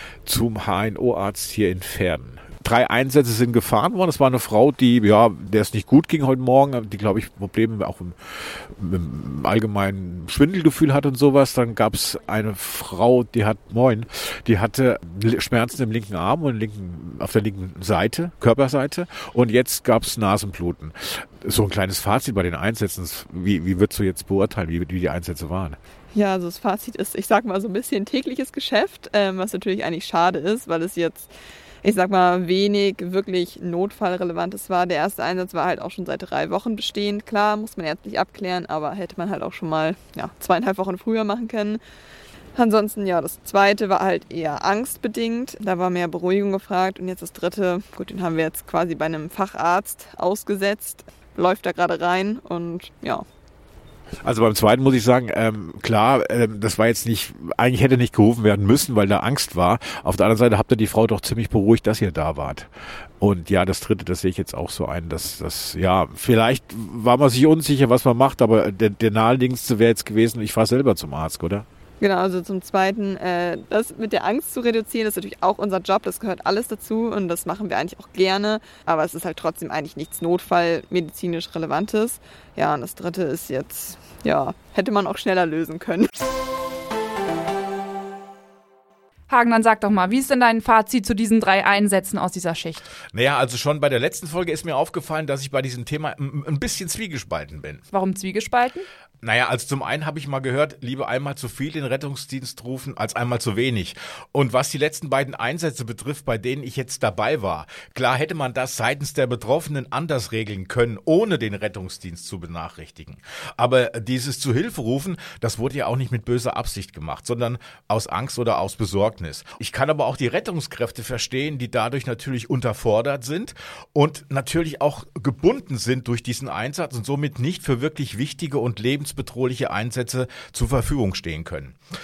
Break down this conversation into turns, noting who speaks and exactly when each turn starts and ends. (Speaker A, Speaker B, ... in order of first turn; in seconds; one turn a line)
Speaker A: 0.3-8.2
Speaker A: 8.8-25.8
Speaker B: 26.1-31.3
Speaker B: 31.8-41.8
Speaker B: 42.6-53.2
Speaker A: 54.2-62.7
Speaker A: 63.2-71.7
Speaker B: 72.0-86.1
Speaker C: 89.3-92.8
Speaker A: 93.1-97.8
Speaker C: 97.9-98.9
Speaker A: 99.2-131.8